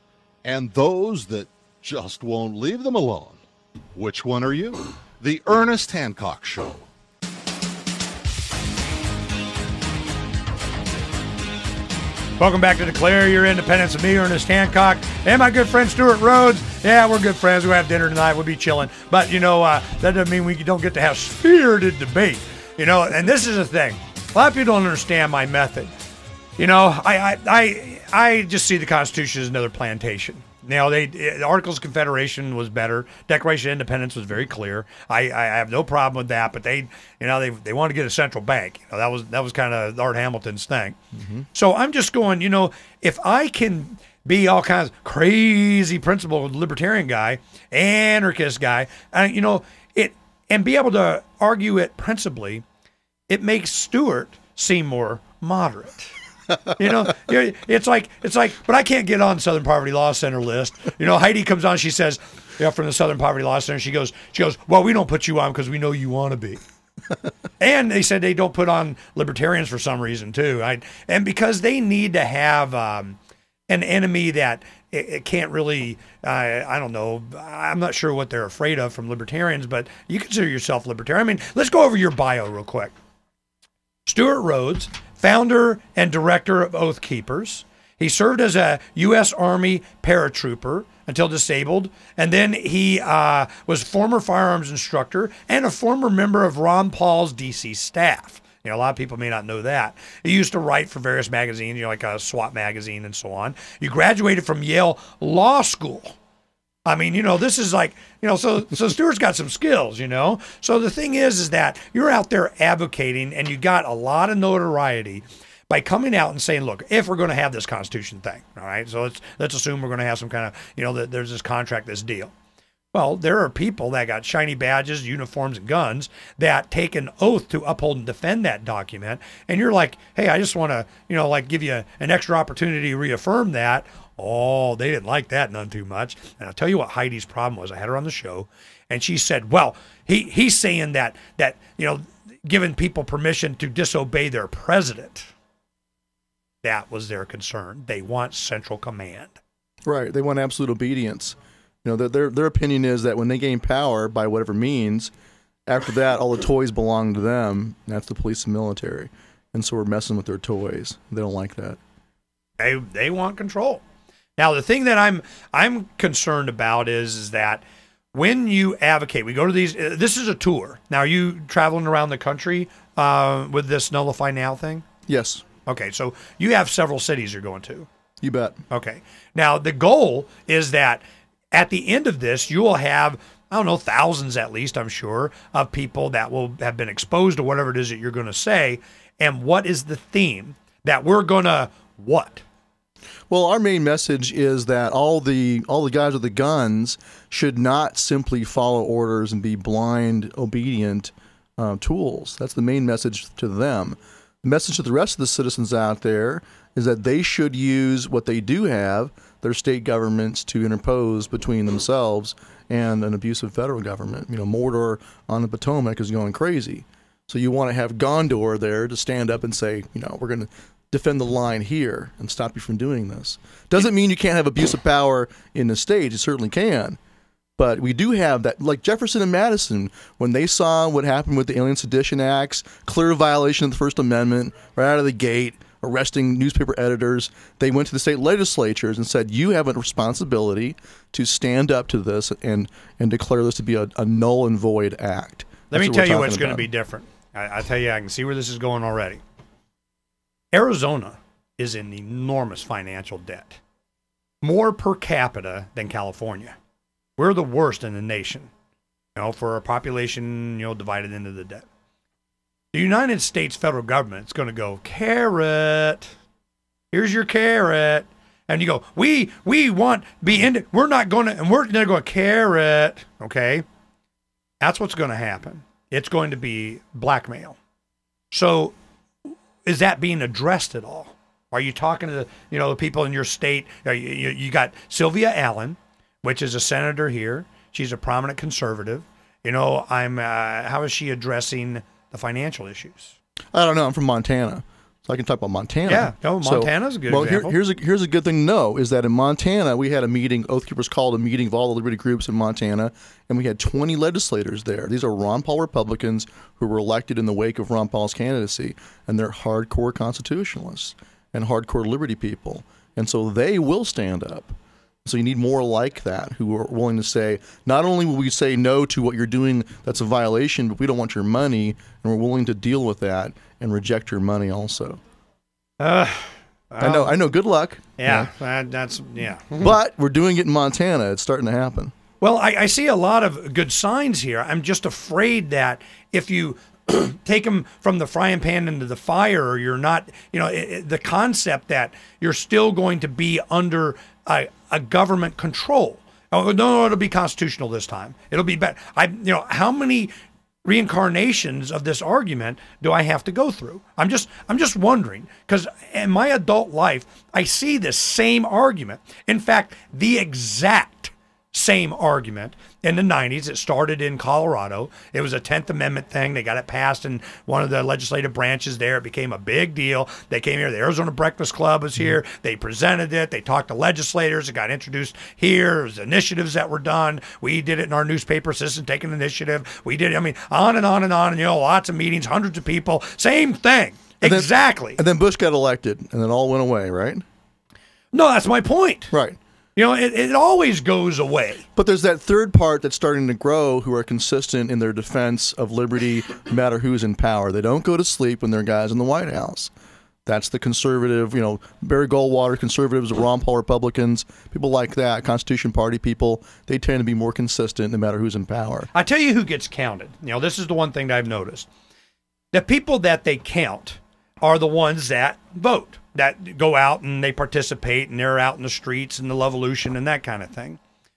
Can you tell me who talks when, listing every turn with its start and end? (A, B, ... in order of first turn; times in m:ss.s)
0:00.4-0:03.4 A
0:03.9-0:06.8 A
0:12.4-0:25.9 B
0:26.6-0:41.0 B
0:41.1-0:41.4 C
0:41.5-0:52.6 B
0:53.3-0:56.1 B
0:56.6-1:06.6 B
1:07.6-1:22.9 B
1:24.0-1:46.2 B
1:46.8-2:02.3 B
2:02.9-2:25.3 B
2:26.6-2:29.4 B
2:29.8-2:35.1 C
2:35.7-2:41.8 C
2:42.6-2:43.8 B
2:44.4-2:54.8 B
2:55.1-2:55.4 C
2:55.6-2:57.9 B
2:58.2-2:58.6 C
2:58.7-3:12.4 B
3:13.3-3:47.0 C
3:47.6-4:06.7 C
4:05.7-4:09.2 B
4:10.5-4:13.6 B
4:14.4-4:16.5 B
4:17.2-4:18.5 B
4:19.1-4:21.7 B
4:22.7-4:26.1 B
4:26.9-4:33.6 B
4:34.6-4:37.6 B
4:38.3-4:38.7 B
4:39.6-4:53.2 B
4:53.5-5:25.0 C
4:55.8-4:57.6 B
5:25.8-5:27.2 B
5:26.8-5:28.3 C
5:28.0-5:29.7 B
5:29.6-5:31.9 C
5:32.2-5:50.1 B
5:50.6-6:25.0 B
6:24.2-6:27.2 C
6:28.1-6:29.1 B
6:29.1-6:29.4 C
6:29.8-6:31.6 B
6:31.8-6:39.7 C
6:40.2-6:48.9 C
6:48.9-6:51.7 B
6:52.5-7:00.8 B